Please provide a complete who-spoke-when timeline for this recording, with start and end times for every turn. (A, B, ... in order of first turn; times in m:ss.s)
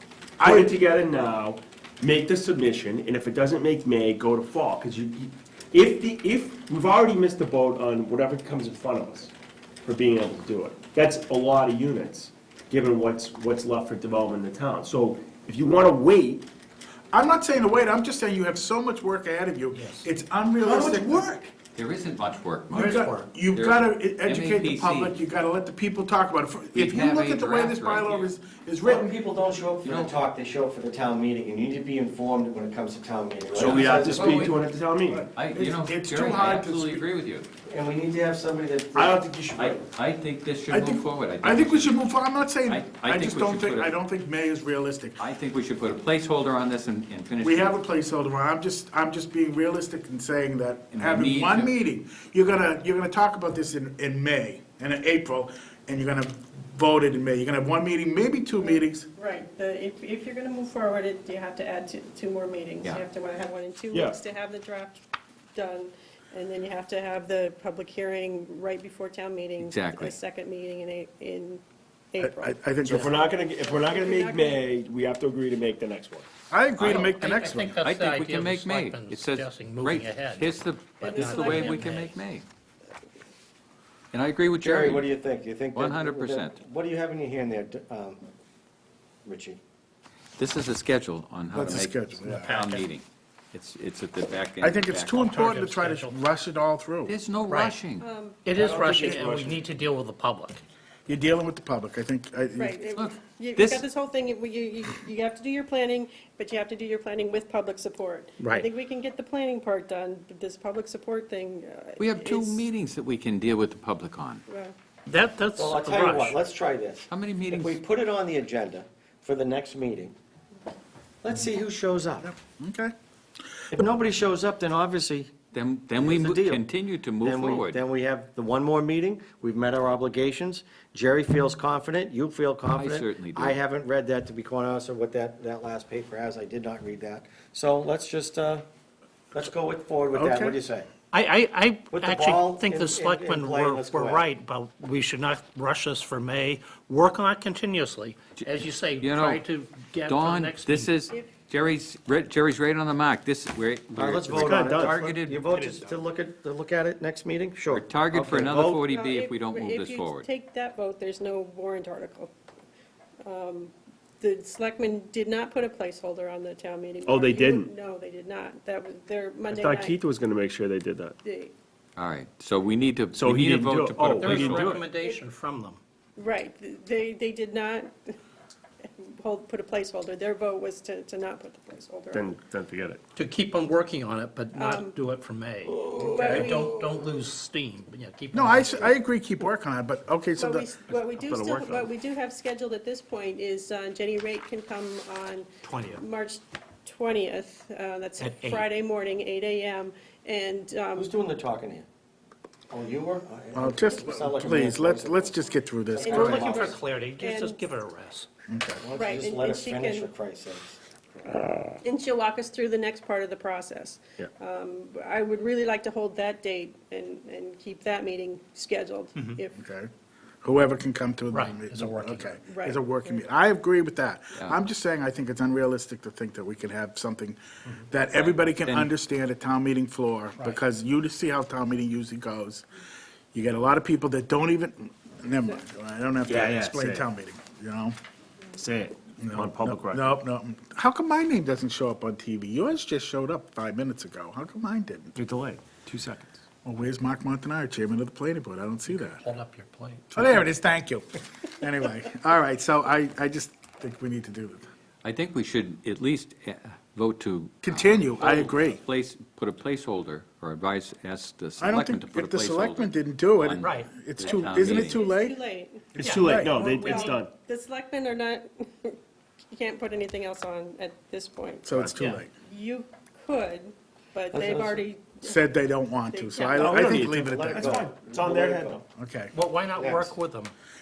0:00.4-0:00.7 A
0:00.4-0:09.3 B
0:09.8-0:16.5 B
0:17.1-0:21.4 A
0:19.7-0:20.1 C
0:20.6-0:21.5 B
0:21.7-0:25.2 D
0:22.7-0:29.1 A
0:22.8-0:23.3 C
0:26.7-0:28.3 D
0:28.8-0:34.5 E
0:29.8-0:30.2 D
0:33.5-0:35.3 B
0:33.6-0:34.6 D
0:35.1-0:37.0 A
0:35.3-0:37.5 D
0:37.7-0:39.2 E
0:39.0-0:39.9 B
0:39.6-0:42.0 D
0:40.7-0:45.2 A
0:42.7-0:43.9 D
0:45.2-0:47.7 D
0:47.4-0:59.1 A
0:50.9-0:51.7 D
0:58.7-1:05.0 F
1:03.9-1:04.2 B
1:05.6-1:12.7 F
1:09.6-1:10.2 D
1:12.2-1:13.1 A
1:12.8-1:16.3 B
1:13.2-1:14.6 F
1:16.5-1:17.8 A
1:16.8-1:22.2 C
1:16.8-1:17.1 D
1:17.8-1:22.4 D
1:21.0-1:21.9 F
1:24.1-1:25.1 D
1:24.6-1:28.2 E
1:25.7-1:26.6 D
1:29.2-1:29.6 E
1:30.4-1:35.3 D
1:31.5-1:32.5 A
1:32.2-1:32.9 C
1:34.6-1:37.2 A
1:35.2-1:36.2 C
1:37.1-1:38.1 D
1:37.5-1:37.8 C
1:38.0-1:38.4 F
1:38.4-1:40.6 C
1:38.5-1:39.7 B
1:41.1-1:42.7 A
1:42.6-1:52.7 F
1:42.9-1:43.8 D
1:48.4-1:48.7 C
1:52.0-1:54.4 D
1:54.5-1:54.8 F
1:55.1-1:56.4 C
1:55.6-2:00.1 E
1:57.1-1:57.8 D
2:01.2-2:02.3 E
2:02.2-2:02.9 A
2:03.7-2:05.4 E
2:05.5-2:07.8 D
2:06.0-2:06.6 E
2:07.2-2:18.6 E
2:12.7-2:13.6 D
2:19.3-2:20.9 E
2:20.1-2:20.6 A
2:21.1-2:31.1 C
2:21.9-2:24.2 E
2:29.0-2:29.4 D
2:30.0-2:35.7 D
2:34.0-2:38.8 E
2:34.3-2:35.1 B
2:37.7-2:40.2 D
2:38.8-2:42.3 F
2:43.2-2:50.0 F
2:47.0-2:47.7 B
2:49.5-2:51.2 B
2:51.2-2:51.5 F
2:52.0-2:54.7 D
2:53.1-2:54.8 B
2:54.1-2:55.8 C
2:56.2-2:58.1 F
2:59.0-3:02.3 F
3:02.1-3:03.0 B
3:03.1-3:09.0 C
3:04.5-3:05.0 F
3:05.7-3:06.2 B
3:05.8-3:06.8 F
3:08.3-3:10.7 A
3:10.4-3:21.2 F
3:10.9-3:11.9 B
3:15.6-3:16.0 C
3:18.2-3:18.7 C
3:21.0-3:21.8 E
3:22.7-3:26.8 E
3:23.5-3:26.4 A
3:26.0-3:27.6 F
3:26.2-3:28.3 C
3:28.5-3:28.8 A
3:28.8-3:30.8 E
3:28.9-3:30.1 F
3:31.8-3:39.6 F
3:39.6-3:39.9 A
3:40.4-3:52.6 A
3:41.3-3:42.3 C
3:42.4-3:43.2 F
3:48.1-3:48.9 D
3:53.3-3:57.9 A
3:56.2-3:57.0 B
3:58.6-4:00.2 B
3:59.2-4:05.1 A
4:05.2-4:06.4 B
4:06.6-4:09.2 A
4:08.9-4:10.4 C
4:10.1-4:11.1 A
4:11.6-4:14.7 A
4:15.0-4:25.0 D
4:17.6-4:18.8 A
4:18.2-4:18.6 B
4:21.6-4:25.4 A
4:23.6-4:24.0 C
4:24.2-4:29.0 F
4:26.0-4:26.3 C
4:26.0-4:27.3 B
4:26.1-4:26.6 A
4:29.5-4:31.7 F
4:31.6-4:32.3 A
4:31.9-4:32.2 C
4:32.4-4:35.3 F
4:34.3-4:34.8 E
4:35.2-4:37.9 A
4:36.1-4:36.8 F
4:36.5-4:38.8 B
4:36.7-4:38.8 E
4:39.0-4:39.3 A
4:39.3-4:40.5 C
4:39.8-4:40.1 B